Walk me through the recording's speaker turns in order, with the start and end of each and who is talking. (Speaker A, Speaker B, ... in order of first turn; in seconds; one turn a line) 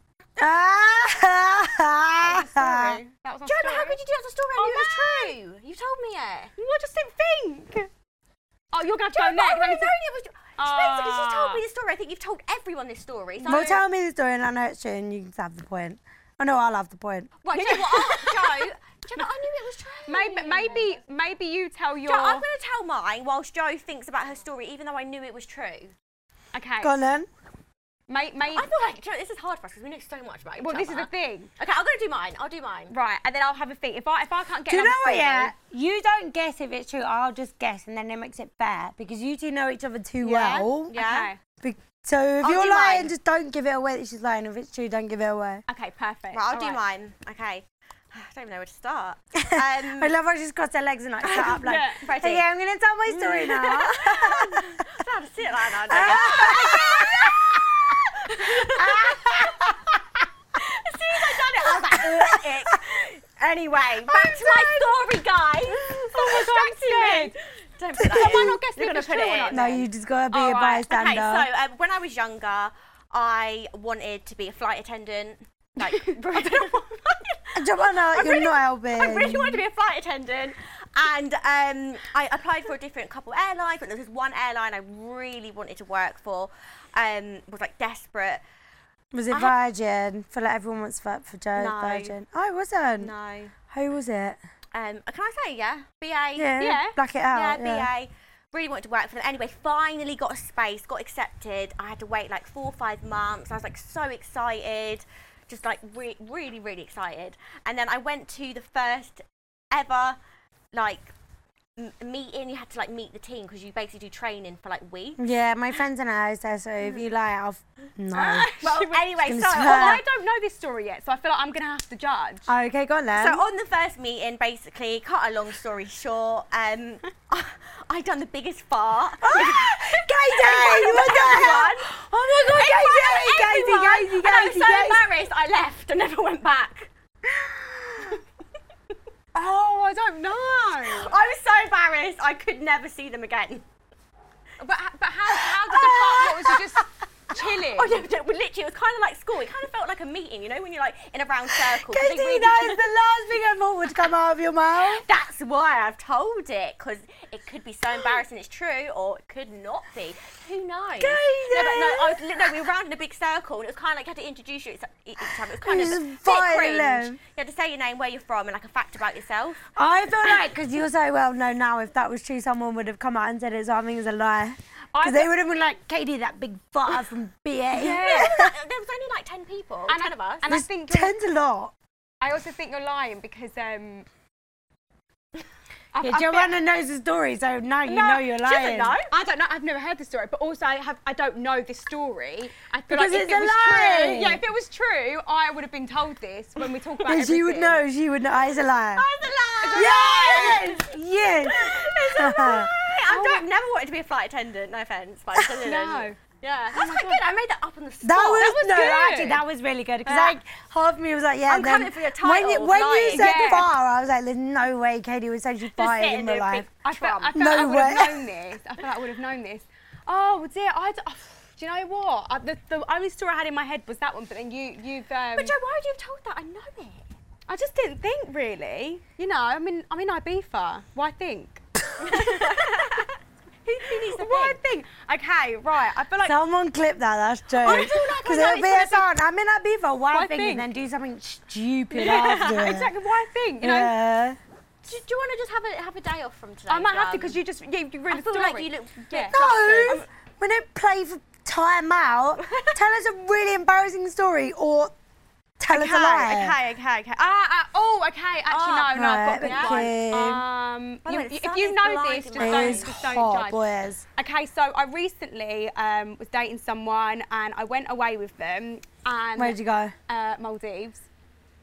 Speaker A: 0.4-3.0
Speaker B: 2.2-4.0
Speaker C: 3.4-6.5
Speaker B: 4.6-5.3
Speaker B: 6.6-7.9
Speaker B: 8.7-9.9
Speaker C: 9.1-13.8
Speaker B: 10.6-11.6
Speaker A: 13.4-17.3
Speaker C: 17.4-20.9
Speaker B: 17.5-19.2
Speaker B: 20.1-22.4
Speaker C: 22.1-25.9
Speaker B: 26.5-26.9
Speaker A: 26.8-27.3
Speaker B: 28.1-28.7
Speaker C: 28.5-32.9
Speaker B: 30.6-31.5
Speaker B: 32.9-35.5
Speaker A: 34.7-40.9
Speaker B: 40.2-41.4
Speaker C: 40.9-41.3
Speaker A: 41.6-45.6
Speaker C: 42.4-43.1
Speaker B: 45.7-46.8
Speaker C: 46.3-50.1
Speaker A: 49.4-54.9
Speaker B: 51.2-52.0
Speaker C: 52.0-52.4
Speaker C: 53.1-59.6
Speaker A: 55.9-57.9
Speaker A: 58.5-59.9
Speaker C: 60.6-69.8
Speaker A: 61.9-62.7
Speaker B: 64.1-65.0
Speaker B: 65.8-67.3
Speaker A: 68.0-68.6
Speaker B: 68.0-70.9
Speaker A: 69.5-71.5
Speaker C: 70.8-88.4
Speaker B: 75.8-76.8
Speaker A: 77.6-79.6
Speaker A: 89.1-93.1
Speaker C: 91.5-92.2
Speaker C: 93.0-93.5
Speaker A: 93.7-94.4
Speaker C: 94.7-96.5
Speaker A: 96.4-97.9
Speaker B: 96.6-97.0
Speaker C: 97.3-110.2
Speaker C: 110.7-111.1
Speaker C: 111.8-115.2
Speaker A: 115.2-118.5
Speaker B: 118.1-122.5
Speaker C: 118.2-120.0
Speaker A: 119.2-120.0
Speaker A: 122.5-123.4
Speaker C: 123.1-136.9
Speaker A: 129.2-135.0
Speaker B: 139.3-141.2
Speaker C: 140.9-143.6
Speaker B: 144.6-148.1
Speaker A: 145.7-146.2
Speaker C: 145.8-146.6
Speaker C: 147.7-152.8
Speaker A: 151.5-155.1
Speaker C: 154.8-169.6
Speaker A: 161.0-162.2
Speaker A: 165.6-167.2
Speaker A: 169.8-178.5
Speaker B: 174.9-175.3
Speaker C: 177.7-180.5
Speaker B: 179.9-181.1
Speaker A: 180.5-181.7
Speaker B: 182.2-184.1
Speaker B: 185.9-186.5
Speaker A: 186.0-188.9
Speaker B: 187.9-188.2
Speaker C: 188.3-189.1
Speaker B: 189.1-197.8
Speaker A: 192.9-194.4
Speaker A: 197.1-199.1
Speaker C: 198.9-200.9
Speaker B: 199.6-200.7
Speaker A: 199.7-202.7
Speaker C: 201.4-208.5
Speaker B: 203.1-203.4
Speaker B: 205.6-206.2
Speaker B: 206.7-207.2
Speaker A: 208.0-216.7
Speaker B: 208.3-209.4
Speaker C: 210.1-210.4
Speaker C: 211.5-213.6
Speaker B: 213.1-213.7
Speaker C: 215.8-217.4
Speaker B: 216.8-225.5
Speaker A: 217.3-218.3
Speaker C: 225.3-227.1
Speaker B: 227.5-231.6
Speaker C: 232.0-233.1
Speaker C: 233.7-234.6
Speaker B: 233.8-236.4
Speaker A: 236.2-242.9
Speaker B: 237.6-238.7
Speaker C: 237.6-239.0
Speaker B: 240.1-240.7
Speaker B: 241.9-243.9
Speaker A: 243.6-244.4
Speaker C: 244.8-247.4
Speaker B: 246.7-249.3
Speaker C: 248.1-250.1
Speaker A: 249.3-254.9
Speaker C: 252.4-252.7
Speaker A: 255.6-256.6
Speaker C: 255.7-257.2
Speaker B: 257.2-263.6
Speaker C: 258.5-260.3
Speaker A: 258.9-260.4
Speaker C: 261.1-262.9
Speaker A: 262.4-264.0
Speaker B: 264.2-271.1
Speaker A: 269.4-269.9